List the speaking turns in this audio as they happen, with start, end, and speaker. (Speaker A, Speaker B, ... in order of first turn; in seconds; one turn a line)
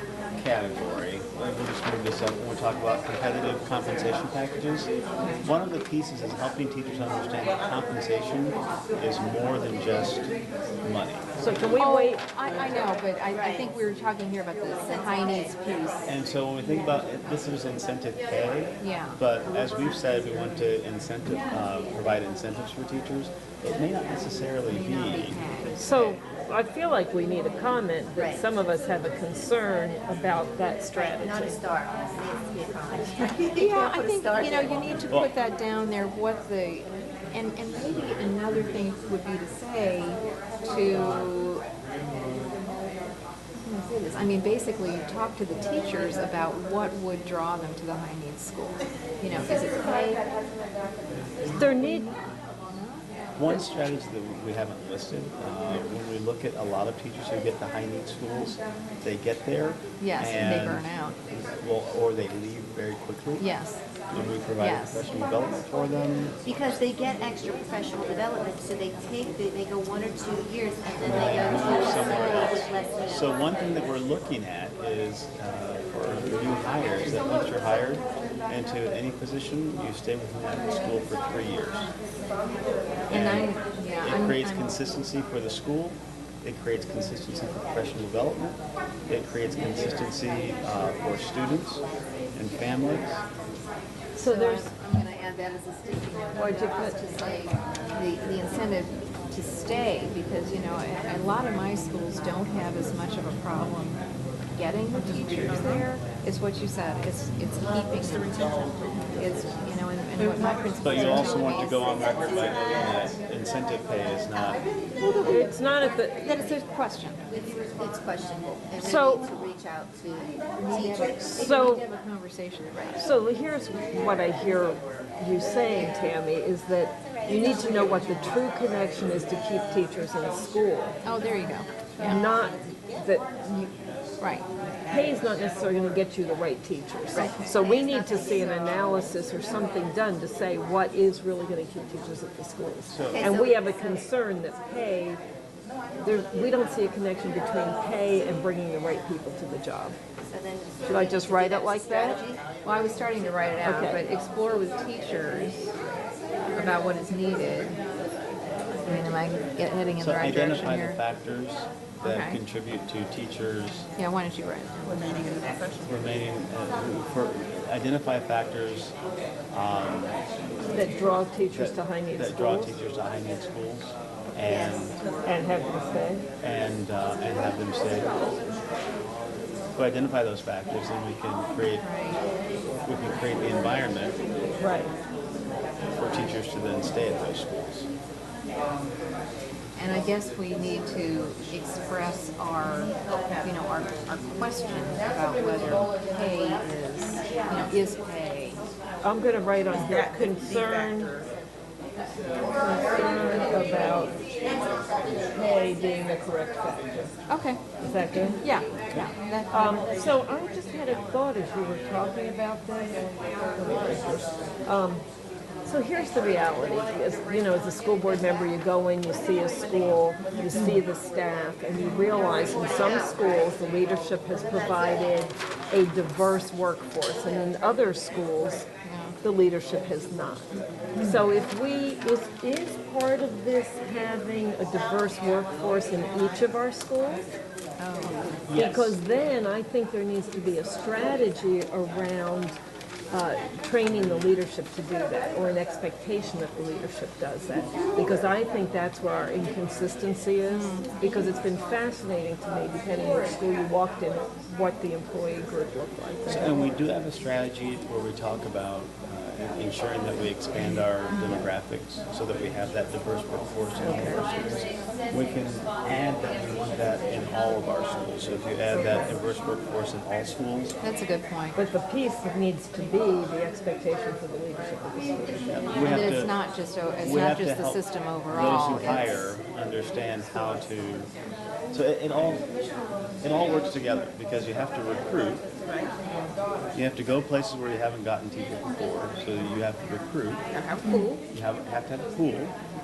Speaker A: 0.3-10.3
Speaker B: 5.2-5.5
Speaker A: 10.8-11.3
Speaker C: 11.4-12.2
Speaker B: 11.7-16.1
Speaker D: 13.3-13.7
Speaker D: 14.8-15.5
Speaker A: 16.1-25.4
Speaker B: 18.8-19.2
Speaker B: 24.7-26.2
Speaker C: 25.8-31.6
Speaker D: 28.1-28.4
Speaker D: 30.9-34.9
Speaker B: 33.5-41.6
Speaker B: 43.6-50.2
Speaker C: 51.5-52.1
Speaker B: 51.6-52.1
Speaker B: 52.7-53.6
Speaker A: 53.4-63.5
Speaker B: 60.0-61.2
Speaker B: 63.4-63.8
Speaker A: 64.1-66.3
Speaker B: 64.6-65.0
Speaker D: 66.4-73.3
Speaker A: 71.0-81.9
Speaker B: 83.1-84.7
Speaker A: 83.1-91.8
Speaker A: 92.3-93.2
Speaker C: 94.2-94.7
Speaker B: 94.2-104.0
Speaker C: 96.3-97.0
Speaker B: 104.5-112.3
Speaker A: 110.8-114.7
Speaker B: 115.0-115.4
Speaker C: 115.2-116.5
Speaker B: 116.1-117.2
Speaker D: 117.3-121.5
Speaker C: 118.8-119.3
Speaker B: 120.6-123.1
Speaker C: 121.2-121.8
Speaker C: 123.0-130.9
Speaker D: 127.9-128.2
Speaker B: 131.0-132.2
Speaker C: 132.0-133.7
Speaker B: 134.2-134.4
Speaker C: 134.9-145.2
Speaker D: 137.1-138.9
Speaker B: 137.1-137.5
Speaker A: 142.9-143.3
Speaker D: 143.1-144.0
Speaker C: 146.0-150.0
Speaker D: 150.2-152.4
Speaker C: 150.9-152.2
Speaker B: 152.6-155.7
Speaker C: 153.6-154.0
Speaker B: 156.5-157.8
Speaker B: 158.8-161.0
Speaker A: 160.0-163.8
Speaker B: 162.0-162.4
Speaker B: 164.0-164.7
Speaker D: 164.9-165.9
Speaker A: 165.8-168.9
Speaker A: 169.5-170.2
Speaker C: 170.7-172.8
Speaker A: 171.5-175.0
Speaker D: 174.4-175.0
Speaker C: 175.2-176.2
Speaker A: 176.4-178.1
Speaker A: 179.8-181.9
Speaker B: 181.8-182.2
Speaker A: 182.8-184.2
Speaker C: 184.6-184.9
Speaker A: 185.9-187.9
Speaker B: 189.8-198.6
Speaker C: 199.0-201.3
Speaker C: 202.6-204.2
Speaker C: 205.3-207.2
Speaker B: 207.3-207.6
Speaker C: 207.8-213.0
Speaker B: 208.4-210.0
Speaker C: 213.5-215.0
Speaker C: 215.6-228.7
Speaker B: 220.5-220.8
Speaker B: 228.8-229.2
Speaker C: 229.2-237.2
Speaker B: 237.8-238.4
Speaker A: 238.3-239.0
Speaker C: 238.5-242.6
Speaker C: 243.1-256.7
Speaker B: 250.5-251.0
Speaker A: 256.3-270.7
Speaker C: 263.8-264.2
Speaker C: 268.7-269.1
Speaker B: 270.8-271.6
Speaker C: 271.5-275.5
Speaker A: 275.5-276.4
Speaker B: 275.8-279.1
Speaker A: 277.0-281.1
Speaker A: 281.7-282.5
Speaker A: 283.2-285.4
Speaker A: 286.7-290.4
Speaker D: 290.6-291.1
Speaker B: 290.8-291.1
Speaker A: 291.3-292.6